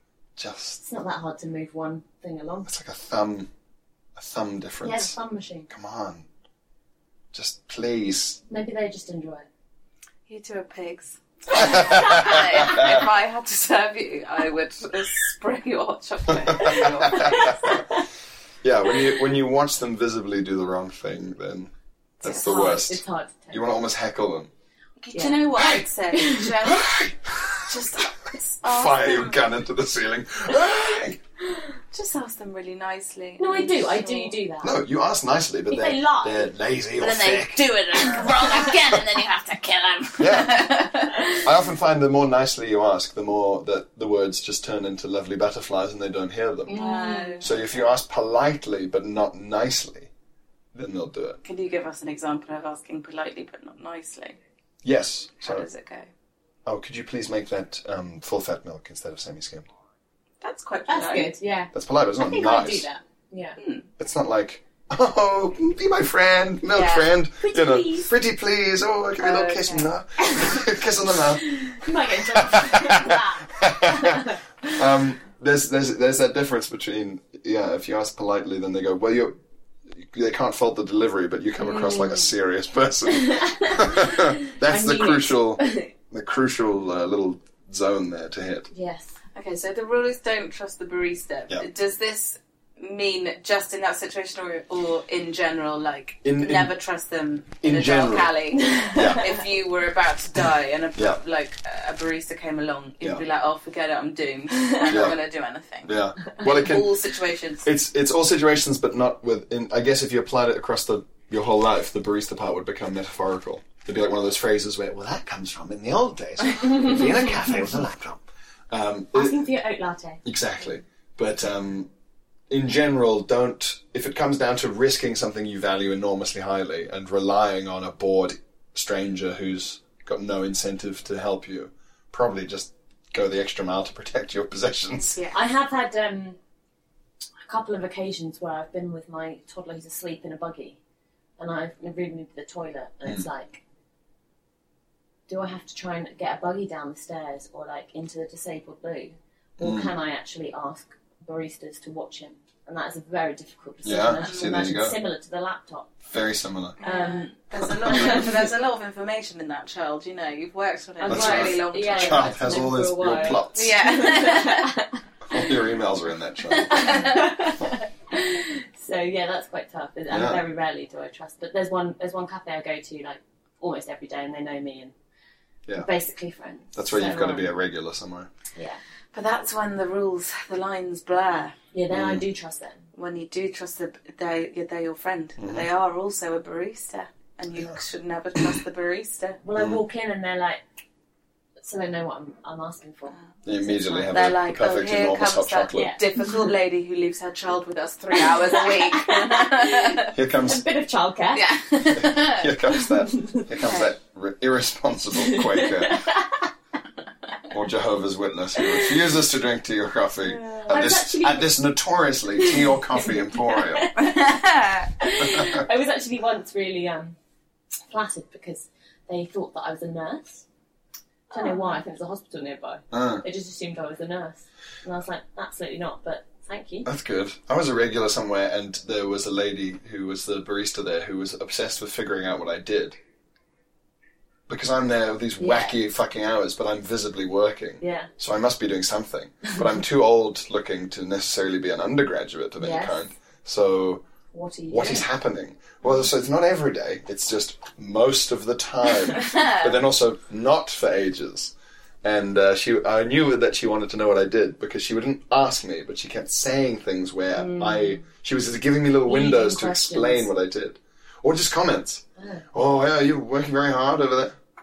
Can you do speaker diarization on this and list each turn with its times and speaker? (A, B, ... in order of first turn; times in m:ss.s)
0:00.4-0:00.8 A
0:00.8-0:02.7 B
0:02.6-0:03.5 A
0:04.2-0:05.2 A
0:04.8-0:05.7 B
0:05.7-0:06.2 A
0:07.3-0:08.4 A
0:08.5-0:09.4 B
0:10.3-0:17.7 C
0:11.5-0:13.1 A
0:11.6-0:12.7 B
0:16.3-0:17.8 A
0:16.7-0:18.0 B
0:18.6-0:24.5 A
0:22.2-0:23.6 B
0:22.2-0:22.6 C
0:25.0-0:27.0 C
0:25.1-0:25.4 B
0:25.5-0:25.8 A
0:26.1-0:26.5 B
0:26.6-0:27.8 A
0:27.6-0:29.4 C
0:28.6-0:31.2 A
0:31.6-0:34.4 C
0:33.4-0:34.8 B
0:34.6-0:37.6 A
0:35.7-0:36.5 B
0:37.0-0:41.4 C
0:38.1-0:38.5 B
0:40.2-0:40.6 A
0:41.4-0:46.8 A
0:46.7-0:47.4 B
0:46.7-0:47.6 C
0:47.4-0:50.1 A
0:50.7-0:51.4 A
0:51.4-0:54.4 C
0:54.8-0:55.6 A
0:55.4-0:56.1 C
0:56.6-0:59.7 A
1:00.4-1:01.3 C
1:00.9-1:03.6 B
1:01.7-1:02.8 A
1:03.6-1:03.9 C
1:04.0-1:19.4 A
1:06.7-1:07.1 C
1:07.4-1:08.1 B
1:09.2-1:09.9 C
1:10.2-1:10.6 B
1:11.3-1:14.8 B
1:19.9-1:28.7 A
1:21.6-1:22.3 B
1:23.1-1:25.9 B
1:28.7-1:29.2 B
1:29.3-1:47.6 C
1:36.2-1:36.7 A
1:37.6-1:38.3 A
1:38.5-1:39.4 B
1:38.9-1:39.2 A
1:40.4-1:41.2 A
1:44.5-1:44.9 B
1:44.9-1:45.2 A
1:45.8-1:47.0 A
1:47.6-1:59.5 A
1:59.1-2:00.2 B
2:00.2-2:01.9 A
2:02.5-2:15.2 A
2:15.0-2:15.4 C
2:15.3-2:16.4 B
2:17.4-2:20.8 B
2:21.4-2:23.6 B
2:25.3-2:35.9 B
2:29.6-2:29.9 A
2:33.8-2:35.0 A
2:34.2-2:34.5 C
2:36.0-2:36.8 A
2:36.8-2:42.3 C
2:36.8-2:37.3 B
2:37.6-2:38.3 A
2:37.9-2:38.3 B
2:41.0-2:45.5 B
2:41.0-2:43.7 A
2:43.5-2:44.8 C
2:45.3-2:47.0 A
2:46.5-2:47.5 C
2:46.7-2:54.9 B
2:50.1-2:50.4 A
2:55.8-2:57.5 B
2:56.7-2:58.3 A
2:58.5-2:58.8 B
2:59.1-3:01.5 C
3:01.7-3:02.8 B
3:01.9-3:02.2 A
3:03.0-3:09.4 C
3:05.4-3:05.7 A
3:09.4-3:10.6 B
3:09.6-3:09.8 A
3:11.6-3:14.1 B
3:13.4-3:15.9 A
3:14.1-3:20.1 C
3:15.7-3:16.5 B
3:18.1-3:21.4 B
3:20.1-3:20.6 A
3:21.3-3:22.5 C
3:21.9-3:26.0 A
3:22.7-3:23.5 B
3:23.6-3:23.9 C
3:25.2-3:26.5 B
3:27.5-3:33.9 A
3:28.6-3:28.9 B
3:30.4-3:30.6 C
3:30.6-3:31.5 B
3:32.4-3:34.3 B
3:34.0-3:34.9 C
3:35.0-3:37.2 B
3:35.2-3:35.6 A
3:37.9-3:40.4 B
3:41.3-3:46.9 B
3:42.9-3:43.2 A
3:46.8-3:53.0 A
3:54.5-4:04.0 A
3:55.4-3:55.7 B
3:57.8-3:58.1 B
4:02.6-4:03.0 B
4:04.3-4:05.1 B
4:04.7-4:24.4 A
4:09.2-4:09.7 C
4:17.3-4:18.0 B
4:19.0-4:20.3 B
4:22.2-4:22.4 B